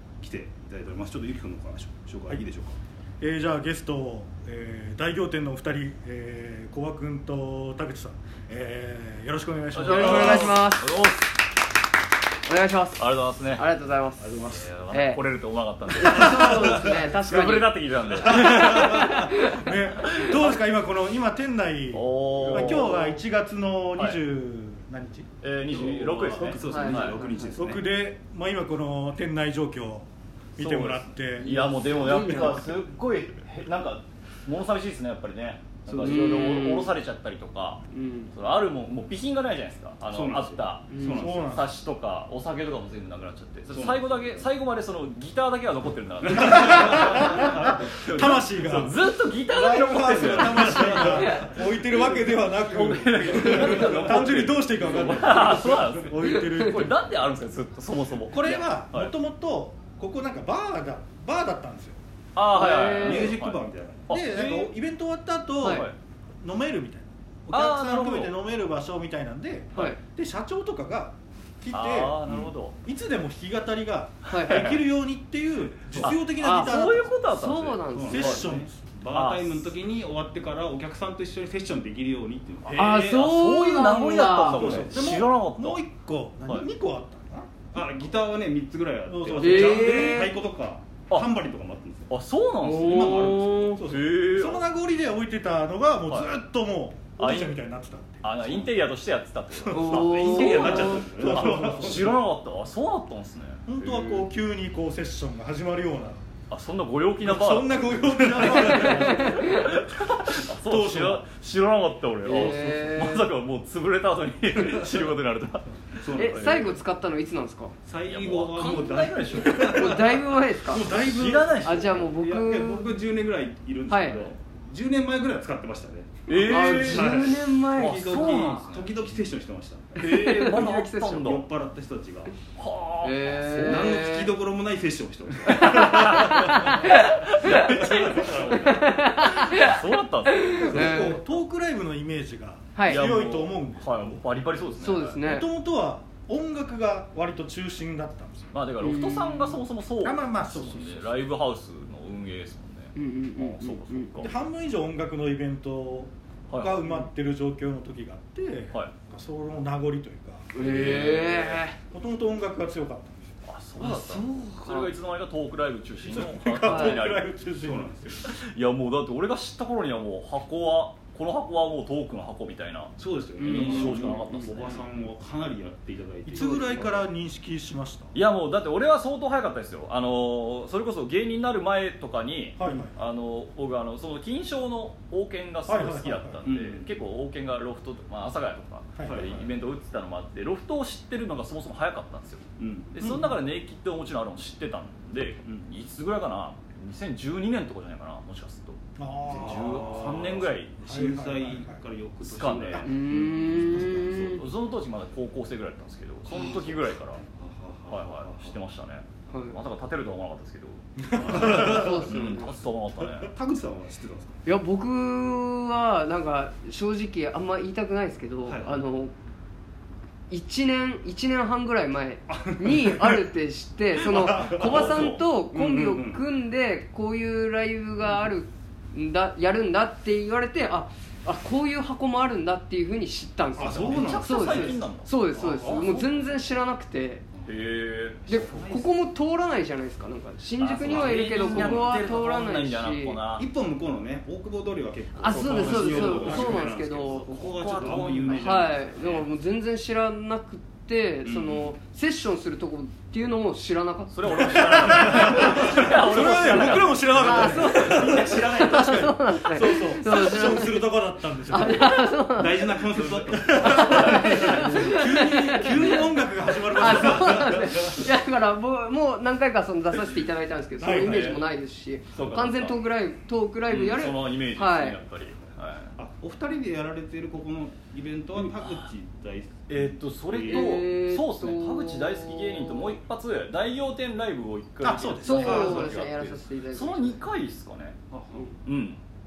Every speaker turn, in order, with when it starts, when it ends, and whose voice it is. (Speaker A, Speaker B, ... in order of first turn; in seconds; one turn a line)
Speaker A: 0.2-2.8
Speaker B: 3.2-10.6
Speaker C: 9.7-11.2
Speaker D: 9.9-11.2
Speaker D: 12.5-15.2
Speaker C: 13.0-13.7
Speaker A: 14.2-14.5
Speaker C: 14.4-19.2
Speaker D: 15.9-19.7
Speaker B: 18.2-25.3
Speaker C: 20.1-20.5
Speaker C: 21.9-23.1
Speaker C: 25.4-27.2
Speaker A: 25.7-27.9
Speaker D: 26.6-27.6
Speaker B: 27.5-30.1
Speaker B: 30.6-32.6
Speaker C: 30.6-59.1
Speaker D: 32.0-32.7
Speaker A: 35.9-36.3
Speaker D: 36.0-36.9
Speaker D: 37.9-38.3
Speaker A: 40.1-41.5
Speaker D: 40.9-41.2
Speaker B: 41.1-41.7
Speaker A: 43.7-44.5
Speaker A: 46.3-48.4
Speaker B: 46.4-57.0
Speaker A: 51.0-51.3
Speaker A: 53.5-54.3
Speaker A: 54.8-55.8
Speaker D: 56.2-56.9
Speaker B: 58.3-62.0
Speaker C: 62.4-64.7
Speaker D: 62.5-63.4
Speaker A: 62.8-64.1
Speaker B: 64.1-65.9
Speaker D: 65.6-65.9
Speaker C: 65.6-66.0
Speaker B: 66.4-72.2
Speaker C: 67.5-68.3
Speaker C: 71.7-72.8
Speaker B: 72.8-77.1
Speaker D: 74.3-74.8
Speaker C: 74.3-74.8
Speaker A: 75.9-76.2
Speaker C: 76.0-78.5
Speaker D: 76.4-78.4
Speaker A: 77.9-83.2
Speaker B: 78.0-79.0
Speaker C: 79.1-79.7
Speaker C: 82.7-85.8
Speaker D: 82.7-84.9
Speaker B: 82.8-83.1
Speaker A: 84.5-85.3
Speaker B: 84.7-87.6
Speaker A: 87.7-92.1
Speaker B: 89.1-90.3
Speaker D: 89.4-90.3
Speaker C: 92.1-94.7
Speaker D: 92.6-93.8
Speaker A: 92.7-93.9
Speaker B: 93.7-98.7
Speaker C: 96.1-96.4
Speaker C: 97.2-97.6
Speaker C: 98.2-104.3
Speaker B: 99.5-100.0
Speaker D: 99.7-101.1
Speaker A: 99.9-102.2
Speaker B: 100.5-102.2
Speaker B: 103.7-106.2
Speaker C: 106.5-116.7
Speaker B: 107.2-109.8
Speaker D: 108.8-109.5
Speaker B: 110.6-111.2
Speaker D: 112.2-113.3
Speaker A: 116.0-116.8
Speaker D: 116.2-117.7
Speaker A: 117.9-120.3
Speaker C: 118.1-120.0
Speaker D: 119.5-121.0
Speaker B: 120.7-121.8
Speaker C: 120.9-122.0
Speaker D: 121.6-123.1
Speaker A: 121.9-130.0
Speaker D: 123.9-124.3
Speaker C: 126.3-129.1
Speaker D: 126.3-128.5
Speaker D: 129.9-131.3
Speaker C: 130.0-131.5
Speaker A: 131.1-132.4
Speaker C: 132.6-134.0
Speaker D: 133.0-134.3
Speaker A: 133.6-136.8
Speaker D: 135.5-139.8
Speaker C: 135.6-141.2
Speaker A: 137.4-138.3
Speaker D: 140.3-141.2
Speaker B: 140.5-144.3
Speaker D: 142.8-143.1
Speaker C: 142.9-145.2
Speaker D: 144.8-145.5
Speaker B: 145.2-148.5
Speaker C: 148.5-154.3
Speaker D: 148.8-149.6
Speaker B: 150.0-151.2
Speaker D: 152.9-154.2
Speaker B: 154.2-160.9
Speaker C: 156.5-156.9
Speaker D: 160.5-161.8
Speaker C: 160.6-161.6
Speaker B: 161.9-163.3
Speaker C: 163.4-167.4
Speaker D: 163.8-164.9
Speaker B: 166.1-168.3
Speaker D: 166.6-167.0
Speaker A: 167.6-168.0
Speaker C: 168.1-174.8
Speaker A: 173.0-177.1
Speaker D: 173.4-174.8
Speaker B: 176.3-178.1
Speaker C: 178.1-200.8
Speaker B: 182.6-182.9
Speaker B: 185.7-186.5
Speaker A: 186.4-186.9
Speaker A: 189.0-189.5
Speaker A: 192.6-193.0
Speaker B: 193.0-193.4
Speaker B: 199.0-200.1
Speaker A: 199.3-204.4
Speaker B: 200.8-201.8
Speaker C: 202.2-202.9
Speaker D: 202.8-204.4
Speaker C: 203.5-207.2
Speaker A: 206.2-208.6
Speaker C: 207.9-213.3
Speaker D: 209.3-209.6
Speaker B: 211.0-212.0
Speaker A: 211.1-212.4
Speaker D: 211.3-212.5
Speaker A: 213.0-214.4
Speaker D: 214.4-219.1
Speaker A: 218.5-218.8
Speaker D: 220.3-237.2
Speaker B: 222.7-223.2
Speaker B: 224.1-224.9
Speaker A: 224.5-226.2
Speaker C: 224.6-225.2
Speaker A: 233.6-236.0
Speaker C: 233.6-236.2
Speaker C: 237.5-238.4
Speaker A: 238.3-239.0
Speaker D: 238.3-243.2
Speaker C: 240.6-243.5
Speaker A: 240.8-242.0
Speaker A: 243.4-249.2
Speaker D: 245.2-247.3
Speaker C: 245.3-249.2
Speaker D: 248.0-255.9
Speaker A: 251.2-251.8
Speaker C: 254.1-258.9
Speaker B: 254.3-262.1
Speaker A: 255.2-255.5
Speaker D: 256.6-263.1
Speaker A: 257.9-258.6
Speaker A: 262.4-264.1
Speaker C: 263.0-265.0
Speaker B: 263.3-268.1
Speaker D: 263.6-275.0
Speaker B: 270.8-271.3
Speaker C: 270.9-271.4
Speaker C: 272.1-272.8
Speaker C: 273.7-275.9
Speaker A: 276.0-280.9
Speaker C: 278.4-278.9
Speaker C: 279.7-288.0
Speaker D: 280.5-283.0
Speaker B: 284.8-285.9
Speaker D: 285.2-287.2
Speaker A: 285.4-285.8
Speaker A: 288.1-288.5
Speaker C: 288.6-289.0